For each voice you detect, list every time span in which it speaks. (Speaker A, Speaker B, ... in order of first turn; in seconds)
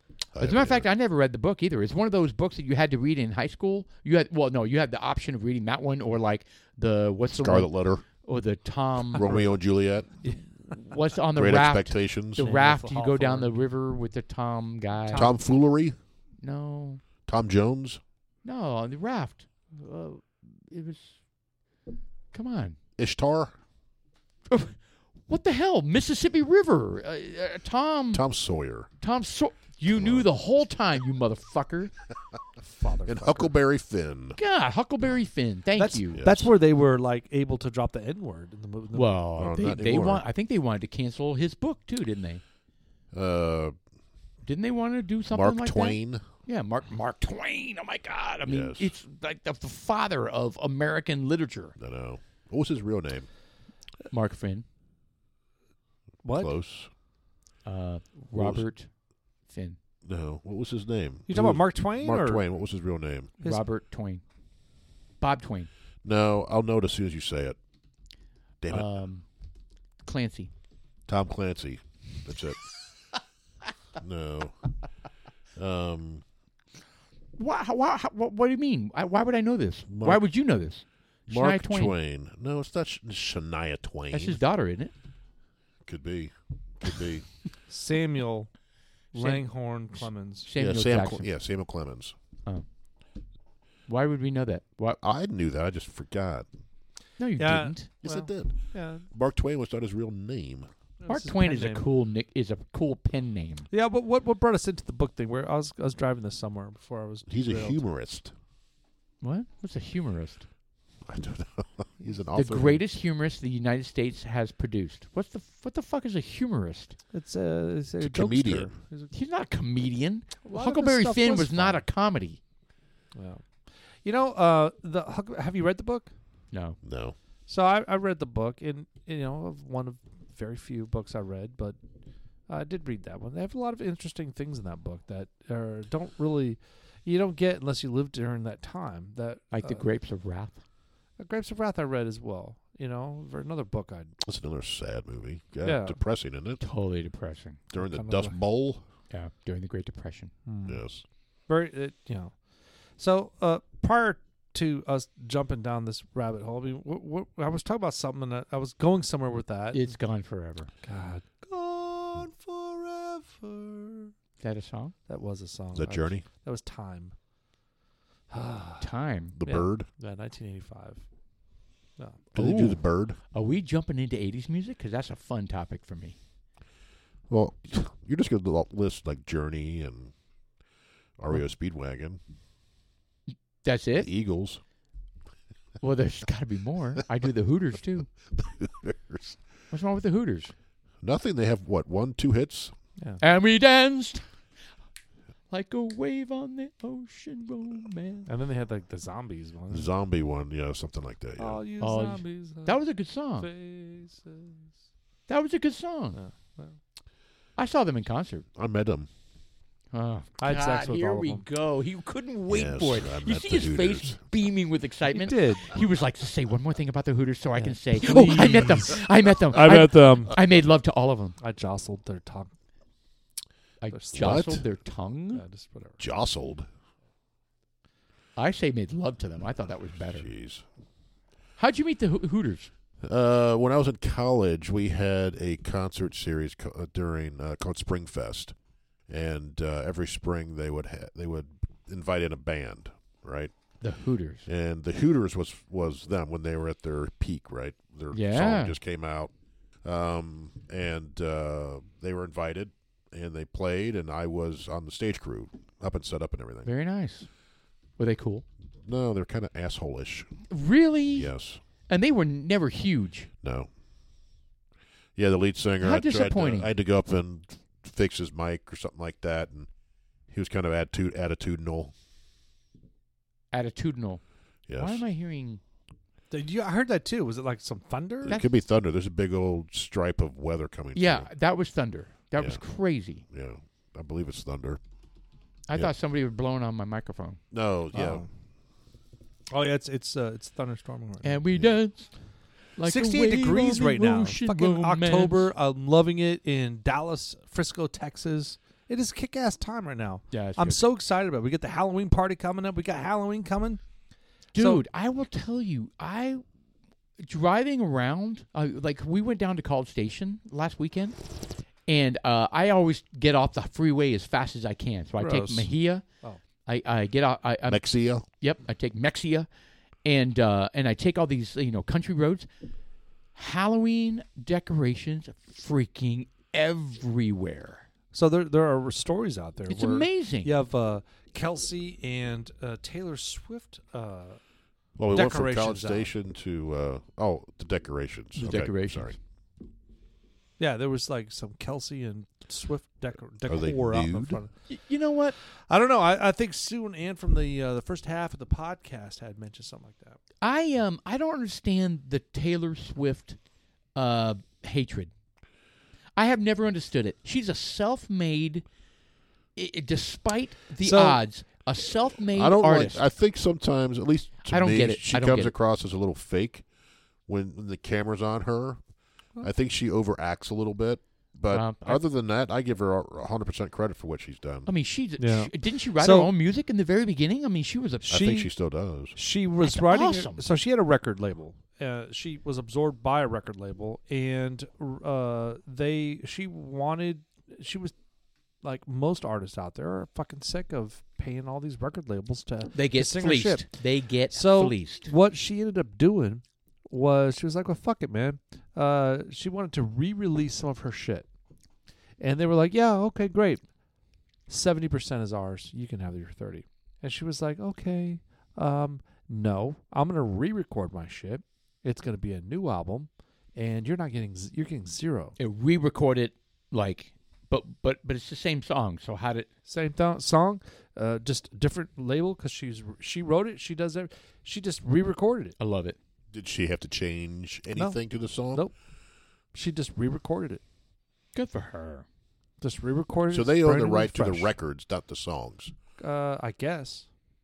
Speaker A: 0.3-0.9, 7.3-8.0, 9.1-10.1, 11.3-12.5, 15.1-15.9, 17.2-18.0, 23.0-23.5, 28.1-28.9, 29.9-30.3, 33.0-34.4, 36.2-36.5, 39.4-40.2, 43.1-43.8, 45.3-46.2, 48.5-48.9, 51.8-53.3, 56.3-56.9, 58.3-58.6, 60.0-63.3, 66.0-67.6, 68.6-68.9, 71.1-72.6, 74.0-74.6, 75.5-76.2, 79.9-80.2, 81.3-84.4, 85.8-87.2, 90.5-92.1, 95.0-96.5, 98.0-98.6, 99.1-100.7, 107.3-108.3, 111.0-112.8, 118.0-118.7, 126.8-127.2, 144.2-146.6, 147.7-148.8, 150.6-151.0, 165.7-166.2, 169.3-169.9, 172.3-173.2, 177.3-180.1, 181.2-182.2, 184.0-184.6, 188.3-189.4, 191.0-192.7, 199.7-201.6, 208.6-209.1, 212.5-214.2, 224.1-224.6, 226.0-226.7, 230.2-230.6, 233.0-238.5, 239.1-243.5, 244.4-249.3, 249.8-256.7, 258.8-260.4, 261.1-261.6, 263.4-263.7, 265.1-269.7, 270.3-271.9, 274.7-275.0, 278.2-281.3, 283.3-284.8, 287.5-288.2, 317.7-318.2, 335.0-339.2, 343.5-344.4, 362.3-366.6, 367.2-368.8, 369.4-374.7, 378.1-379.2, 426.3-428.6, 433.3-435.7
Speaker B: 0.4-9.4, 10.7-15.3, 16.4-17.0, 18.4-21.1, 22.3-22.8, 24.5-28.2, 29.0-31.9, 34.4-36.2, 38.9-42.4, 44.4-51.7, 54.1-54.6, 57.6-58.9, 59.5-59.8, 63.4-64.2, 65.2-65.7, 68.7-69.2, 70.0-70.5, 77.4-81.9, 84.1-84.9, 89.1-89.4, 90.0-91.3, 93.9-95.0, 97.2-97.9, 101.1-103.7, 109.2-110.5, 112.3-117.0, 119.1-122.4, 126.5-126.8, 139.5-140.6, 146.6-147.6, 149.1-150.3, 159.7-160.7, 164.4-164.9, 168.8-169.3, 172.3-172.8, 173.3-176.2, 183.6-184.1, 185.8-188.1, 189.7-190.5, 193.2-194.2, 195.5-198.3, 201.8-203.5, 205.3-206.2, 207.6-208.4, 209.9-221.3, 223.8-225.4, 228.4-230.3, 231.6-232.7, 243.8-244.5, 248.1-248.8, 256.6-257.3, 258.0-258.4, 260.5-261.3, 261.9-263.3, 265.8-266.7, 273.5-274.2, 274.8-275.6, 280.9-283.2, 285.7-287.4, 291.2-292.1, 292.8-295.5, 300.3-300.8, 304.5-306.4, 307.2-311.2, 311.9-316.0, 316.6-319.5, 320.0-322.5, 323.3-327.9, 329.7-330.5, 338.3-339.1, 344.7-345.4, 350.4-353.4, 353.9-355.1, 356.1-358.6, 359.6-363.0, 364.5-365.5, 371.5-372.0, 374.7-378.2, 379.6-380.4, 392.7-395.1, 415.4-419.5, 425.6-426.0, 431.3-432.1
Speaker C: 10.2-10.8, 12.4-13.6, 15.1-15.4, 32.6-33.5, 35.8-39.1, 56.2-56.5, 61.3-62.4, 87.7-88.5, 89.1-90.5, 97.4-99.0, 101.0-101.8, 103.7-107.8, 117.1-119.1, 120.4-121.8, 123.1-126.1, 127.5-131.8, 132.5-139.8, 141.2-144.1, 145.6-146.0, 147.7-148.3, 150.4-150.8, 151.5-152.4, 153.0-159.9, 160.8-164.1, 165.1-167.1, 168.3-168.9, 169.4-171.0, 172.0-172.3, 198.3-199.9, 201.4-202.8, 203.4-204.7, 206.1-206.8, 210.4-211.4, 215.1-215.8, 217.6-220.3, 221.4-222.5, 223.9-224.5, 225.3-226.0, 276.3-278.4, 287.9-288.3, 289.5-291.4, 292.8-303.8, 304.6-304.8, 315.2-315.7, 328.1-334.4, 335.1-336.1, 340.6-344.5, 345.7-350.2, 360.8-361.2, 375.2-376.3, 378.0-378.5, 379.1-387.9, 388.6-393.7, 394.3-401.2, 402.2-403.6, 404.5-415.3, 419.7-425.6, 427.8-428.0, 429.5-430.6, 432.6-434.5, 436.0-437.1